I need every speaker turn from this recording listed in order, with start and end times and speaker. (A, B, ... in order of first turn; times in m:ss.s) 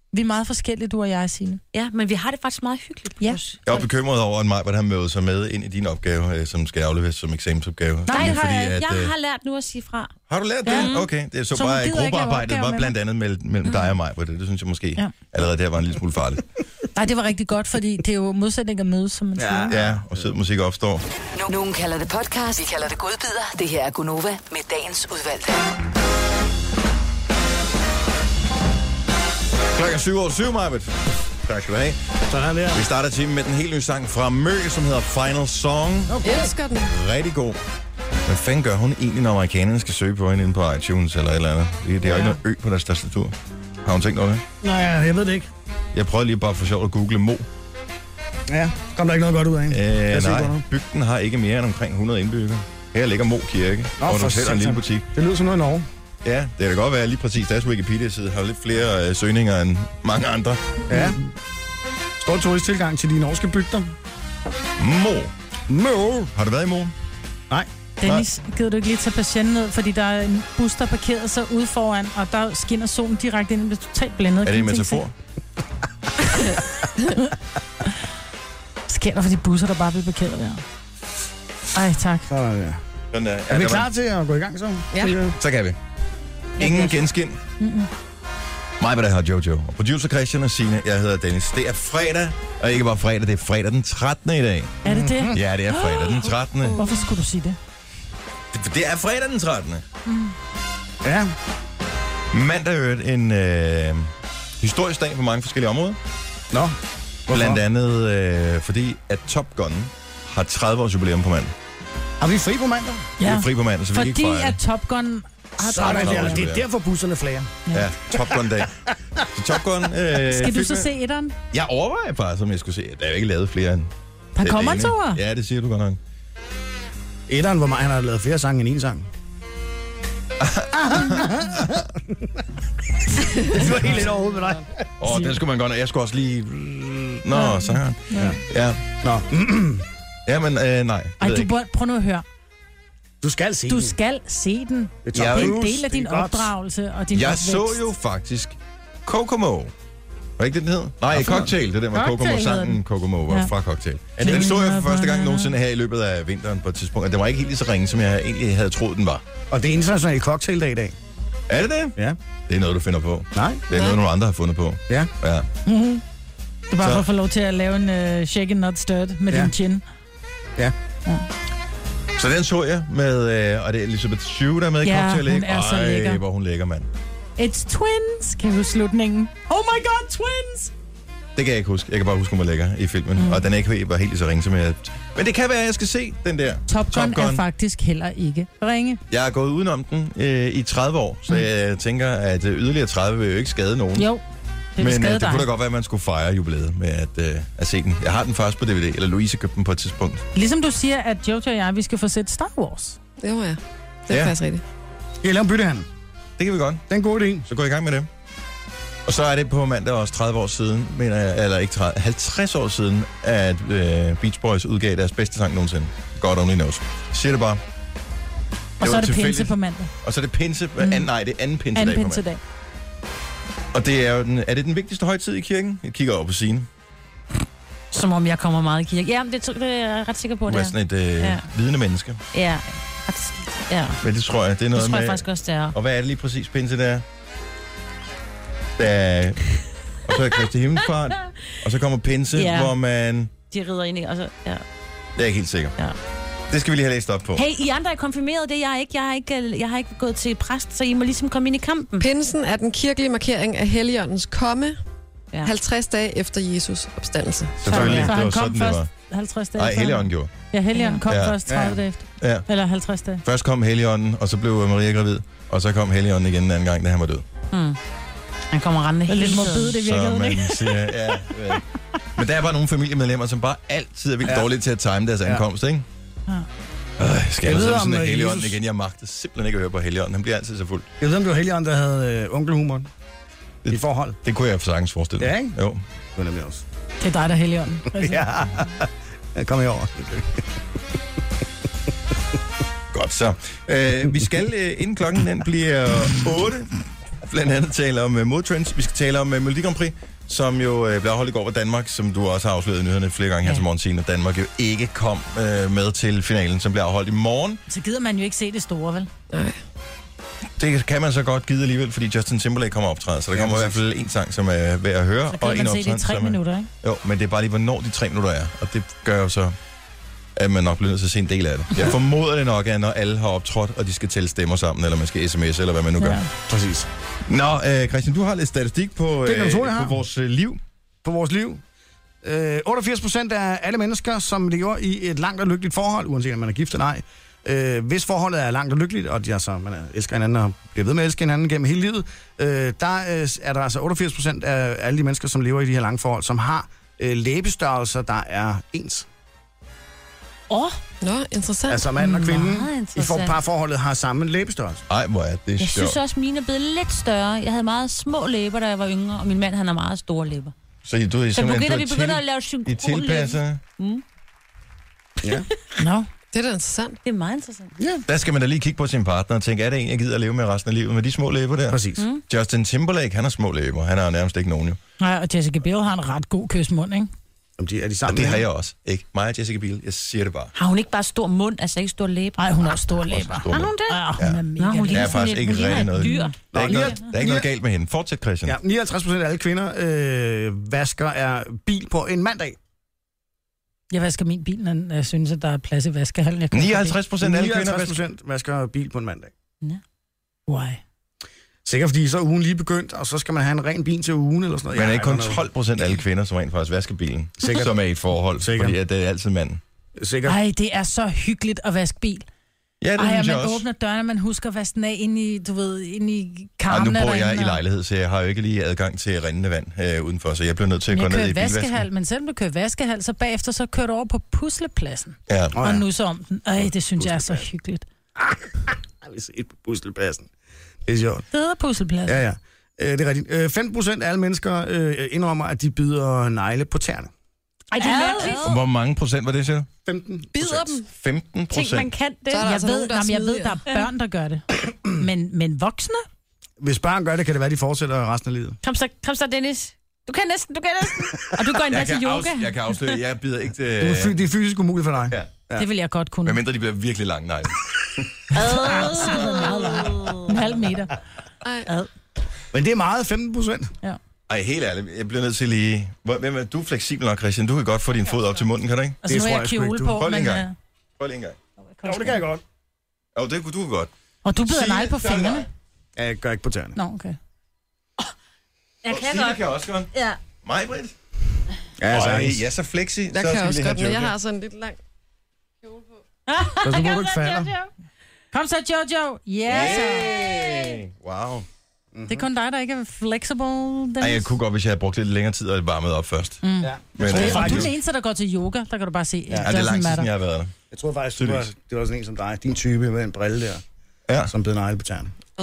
0:00.1-0:01.6 A
0:01.7-0:03.6 B
0:03.7-0:09.1 C
0:08.1-0:08.4 A
0:08.1-0:10.1 B
0:10.3-0:16.4 C
0:10.6-0:10.9 A
0:10.6-0:11.1 B
0:11.5-0:12.9 A
0:17.0-0:19.7 A
0:19.4-0:20.3 D
0:19.7-0:21.0 C
0:21.4-0:25.6 E
0:29.7-0:32.0 C
0:32.3-0:32.9 D
0:32.7-0:36.2 C
0:36.1-0:36.5 D
0:36.2-0:36.9 F
0:36.9-0:37.6 C
0:38.3-0:44.4 C
0:44.6-0:45.5 D
0:45.9-0:47.5 C
0:48.5-0:50.6 D
0:49.7-0:55.0 C
0:54.0-0:55.9 D
0:56.2-1:00.8 C
1:00.9-1:01.2 D
1:02.2-1:03.9 D
1:04.8-1:05.3 C
1:05.7-1:06.3 D
1:06.3-1:06.9 C
1:08.0-1:15.0 A
1:14.4-1:15.1 C
1:17.0-1:17.3 A
1:18.9-1:20.6 A
1:21.7-1:22.3 A
1:22.3-1:22.8 D
1:23.1-1:23.9 C
1:23.5-1:25.4 D
1:24.9-1:25.2 F
1:25.4-1:25.8 C
1:26.6-1:27.0 B
1:26.6-1:27.4 C
1:27.6-1:27.9 A
1:28.8-1:36.8 C
1:34.8-1:37.6 A
1:34.8-1:35.4 D
1:38.5-1:39.8 C
1:40.1-1:40.3 A
1:41.0-1:41.3 D
1:42.3-1:46.0 C
1:46.5-1:47.6 D
1:47.3-1:51.5 C
1:52.2-1:53.1 D
1:53.2-1:56.5 A
1:53.2-1:54.6 C
1:55.6-1:57.6 D
1:55.7-1:56.6 C
1:57.7-1:57.9 A
1:57.7-1:58.8 C
1:58.1-1:59.2 D
1:59.3-2:00.9 C
2:00.2-2:01.4 A
2:01.5-2:06.0 C
2:04.4-2:05.2 A
2:07.3-2:09.1 D
2:10.4-2:11.4 C
2:10.8-2:12.4 D
2:13.4-2:14.9 D
2:15.0-2:18.8 C
2:15.1-2:15.4 A
2:17.3-2:18.4 A
2:18.1-2:18.4 D
2:19.0-2:19.9 D
2:20.3-2:21.5 C
2:21.2-2:22.2 A
2:23.2-2:24.0 D
2:23.7-2:27.8 A
2:25.0-2:26.5 D
2:25.1-2:25.6 C
2:27.1-2:29.7 C
2:30.4-2:39.2 C
2:31.2-2:33.5 A
2:34.2-2:35.5 A
2:39.5-2:41.0 D
2:41.5-2:42.0 C
2:42.5-2:45.5 C
2:43.4-2:43.7 D
2:45.7-2:46.0 A
2:46.7-2:49.8 A
2:46.8-2:47.1 C
2:52.2-2:56.9 C
2:54.8-2:56.2 A
2:57.4-3:00.7 A
3:01.4-3:07.4 C
3:03.2-3:03.4 A
3:06.7-3:09.0 A
3:09.1-3:14.1 C
3:14.0-3:14.2 A
3:14.8-3:15.5 A
3:14.8-3:20.2 C
3:20.4-3:23.0 A
3:23.2-3:24.6 F
3:24.1-3:24.4 C
3:25.2-3:25.9 D
3:26.4-3:26.8 C
3:26.9-3:27.5 D
3:27.4-3:28.1 C
3:29.1-3:37.6 C
3:38.8-3:39.9 A
3:38.8-3:42.2 C
3:40.8-3:41.1 A
3:41.8-3:42.4 A
3:43.7-3:46.7 C
3:47.9-3:51.5 B
3:50.5-3:52.2 C
3:52.3-3:54.0 B
3:54.0-3:57.0 C
3:54.7-3:55.8 B
3:58.8-3:59.5 C
4:00.1-4:03.3 C
4:02.4-4:02.7 B
4:03.5-4:04.6 B
4:05.2-4:05.8 C
4:06.5-4:07.4 C
4:07.4-4:12.1 B
4:12.0-4:14.8 F
4:15.4-4:18.0 F
4:17.6-4:18.9 C
4:17.7-4:18.1 B
4:17.7-4:23.2 A
4:19.6-4:20.3 C
4:20.7-4:21.0 B
4:21.1-4:21.4 C
4:21.5-4:21.8 D
4:22.2-4:22.5 C
4:23.2-4:27.2 C
4:27.5-4:27.8 B
4:28.5-4:29.8 B
4:29.1-4:31.2 A
4:29.8-4:31.6 C
4:32.2-4:35.8 C
4:34.2-4:34.5 D
4:37.0-4:40.9 C
4:37.4-4:38.6 D
4:41.0-4:42.9 D
4:43.6-4:45.8 C
4:43.7-4:44.2 D
4:45.2-4:45.6 D
4:46.2-4:46.6 D
4:47.0-4:48.3 A
4:47.9-4:50.4 D
4:52.9-4:56.7 C
4:57.2-5:07.6 C
5:07.7-5:09.1 A
5:09.3-5:09.6 F
5:10.6-5:19.6 C
5:13.3-5:13.8 D
5:15.3-5:16.7 A
5:20.4-5:26.2 C
5:26.0-5:26.3 A
5:26.5-5:26.9 D
5:27.3-5:30.6 C
5:29.2-5:30.0 D
5:31.0-5:31.6 D
5:32.2-5:49.1 D
5:50.5-5:50.8 B
5:51.0-5:51.9 F
5:51.7-5:54.8 D
5:52.0-5:53.4 B
5:54.9-5:56.0 C
5:55.6-6:00.5 B
6:00.8-6:03.6 C
6:01.4-6:04.0 B
6:05.8-6:06.1 A
6:06.3-6:07.0 F
6:07.0-6:07.7 B
6:07.8-6:08.0 D
6:08.1-6:14.8 C
6:11.7-6:12.0 D
6:12.0-6:12.2 B
6:15.0-6:17.1 A
6:17.6-6:18.4 D
6:18.1-6:20.5 C
6:20.6-6:22.7 B
6:22.4-6:26.3 A
6:23.1-6:28.6 C
6:23.4-6:26.4 B
6:26.5-6:27.5 D
6:28.5-6:32.6 D
6:33.9-6:37.0 A
6:36.5-6:38.0 C
6:37.2-6:39.3 D
6:40.5-6:40.8 A
6:41.6-6:45.4 D
6:44.7-6:49.6 C
6:47.4-6:47.8 D
6:48.4-6:48.8 D
6:50.0-6:50.4 D
6:50.3-6:52.3 A
6:52.8-6:53.6 C
6:53.0-6:57.6 A
6:56.7-7:01.9 C
7:00.9-7:07.8 A
7:05.3-7:05.6 C
7:05.5-7:05.8 D
7:07.0-7:07.5 D
7:08.2-7:10.3 D
7:10.9-7:11.3 D
7:11.3-7:12.2 A
7:12.1-7:17.1 D
7:17.7-7:18.5 A
7:17.8-7:18.6 B
7:18.3-7:19.7 C
7:19.8-7:20.3 D
7:20.3-7:20.9 F
7:20.4-7:21.9 C
7:21.5-7:22.6 B
7:22.3-7:26.0 A
7:22.3-7:23.6 F
7:26.6-7:28.6 D
7:28.6-7:33.0 B
7:31.6-7:34.2 C
7:33.8-7:35.7 D
7:35.6-7:36.4 A
7:36.2-7:39.5 C
7:38.3-7:40.4 B
7:38.4-7:41.0 A
7:41.4-7:41.7 F
7:42.5-7:43.7 D
7:44.3-7:49.0 C
7:49.0-7:50.6 A
7:49.0-7:50.0 D
7:49.8-7:50.5 C
7:51.0-7:51.4 C
7:51.8-7:52.2 A
7:51.8-7:52.4 D
7:53.2-7:53.9 C
7:54.2-7:55.5 A
7:54.5-7:55.4 C
7:56.0-7:56.8 D
7:56.8-7:57.2 A
7:58.8-8:00.2 B
7:58.9-7:59.9 C
8:00.4-8:01.0 C
8:01.8-8:02.5 D
8:01.9-8:04.1 C
8:03.1-8:04.8 F
8:06.3-8:07.7 B
8:06.6-8:07.5 D
8:08.3-8:10.2 A
8:09.5-8:11.5 C
8:11.9-8:12.3 D
8:12.1-8:14.3 A
8:14.0-8:16.4 C
8:16.4-8:20.1 A
8:16.6-8:17.7 D
8:17.0-8:17.7 C
8:19.4-8:20.5 C
8:20.7-8:23.6 D
8:21.2-8:21.5 C
8:24.2-8:25.1 D